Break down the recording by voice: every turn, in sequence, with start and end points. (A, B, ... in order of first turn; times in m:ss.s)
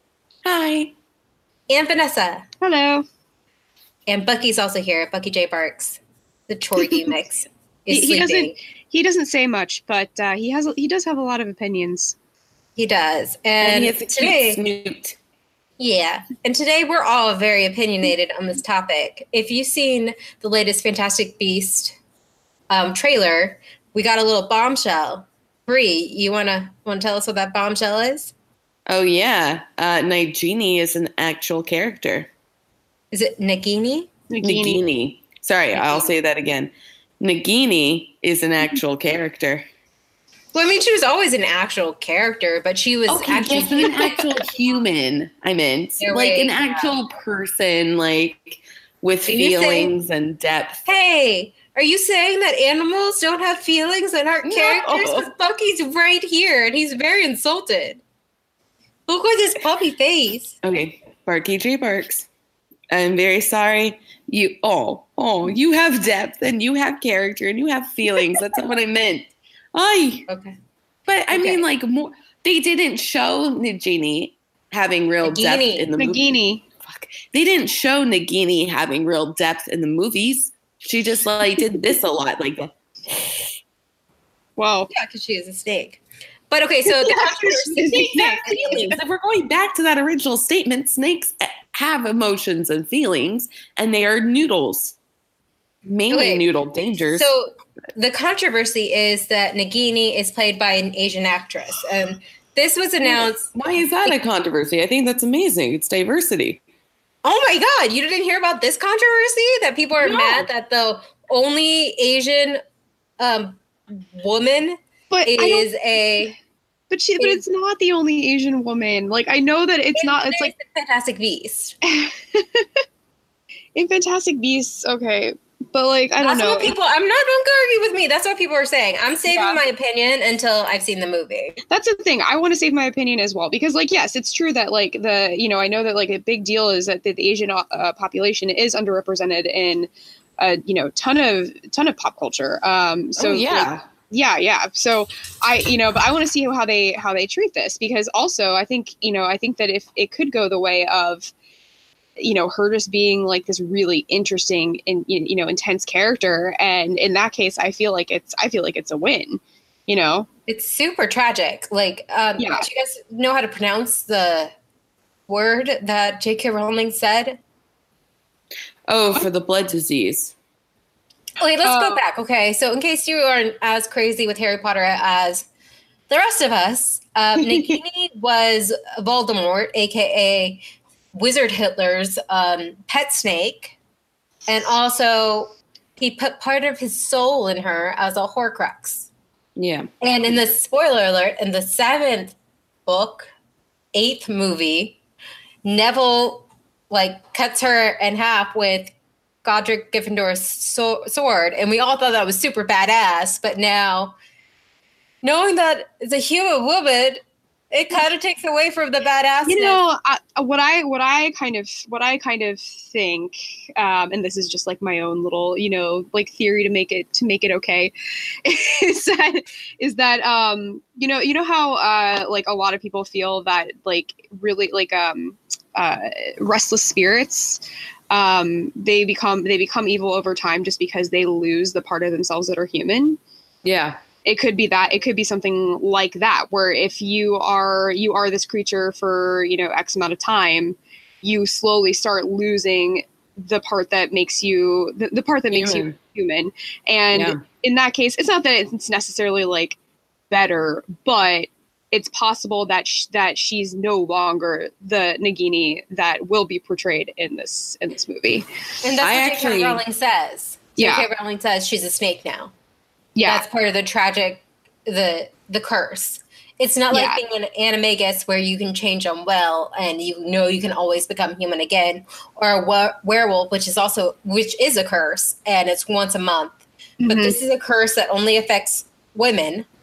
0:00.4-0:00.9 A
0:01.7-0:02.4 B
0:02.6-0:03.0 C
0:04.1-0:08.5 B
0:07.9-0:12.1 C
0:12.8-0:14.6 B
0:13.6-0:15.2 A
0:15.8-0:22.0 B
0:22.7-0:28.3 B
0:28.9-0:32.3 A
0:33.1-0:34.1 B
0:34.3-0:34.8 C
0:34.4-0:39.6 A
0:35.8-0:36.1 B
0:40.5-0:44.3 B
0:43.1-0:50.8 A
0:46.0-0:46.9 B
0:49.3-0:49.9 B
0:50.8-0:58.0 B
0:54.4-0:55.3 A
0:59.1-1:00.5 B
1:00.6-1:02.3 A
1:02.9-1:10.3 A
1:10.3-1:10.5 B
1:11.0-1:16.2 A
1:11.3-1:11.6 B
1:15.2-1:15.9 B
1:16.0-1:16.6 C
1:16.8-1:23.3 A
1:24.6-1:24.9 C
1:24.9-1:28.9 B
1:26.8-1:29.0 C
1:28.1-1:34.9 A
1:35.8-1:37.3 A
1:36.1-1:36.5 B
1:37.1-1:43.5 B
1:43.0-1:46.6 A
1:47.2-1:52.6 B
1:50.0-1:50.4 A
1:53.2-1:56.3 B
1:55.1-1:55.7 C
1:56.9-2:00.5 C
1:57.2-1:57.4 B
1:59.9-2:01.8 B
2:01.9-2:02.7 C
2:03.7-2:06.7 C
2:06.2-2:11.6 B
2:09.3-2:09.6 C
2:11.7-2:31.3 C
2:23.2-2:23.8 A
2:32.2-2:40.3 C
2:40.5-2:44.5 B
2:42.4-2:42.6 C
2:45.3-2:47.4 B
2:48.9-2:50.3 A
2:51.4-2:55.5 B
2:51.6-2:52.0 C
2:56.1-3:00.6 B
3:01.1-3:03.7 B
3:04.5-3:09.1 B
3:09.6-3:09.9 A
3:10.0-3:13.3 B
3:13.9-3:15.0 B
3:15.6-3:18.9 B
3:19.4-3:24.2 B
3:25.2-3:29.8 B
3:29.4-3:53.2 C
3:53.6-3:54.0 A
3:54.2-4:09.8 C
4:05.5-4:05.9 A
4:07.1-4:07.4 A
4:10.3-4:18.4 C
4:18.8-4:22.5 B
4:19.0-4:19.8 A
4:20.8-4:21.0 C
4:23.2-4:23.4 C
4:23.2-4:39.7 B
4:26.9-4:27.2 C
4:37.0-4:37.4 C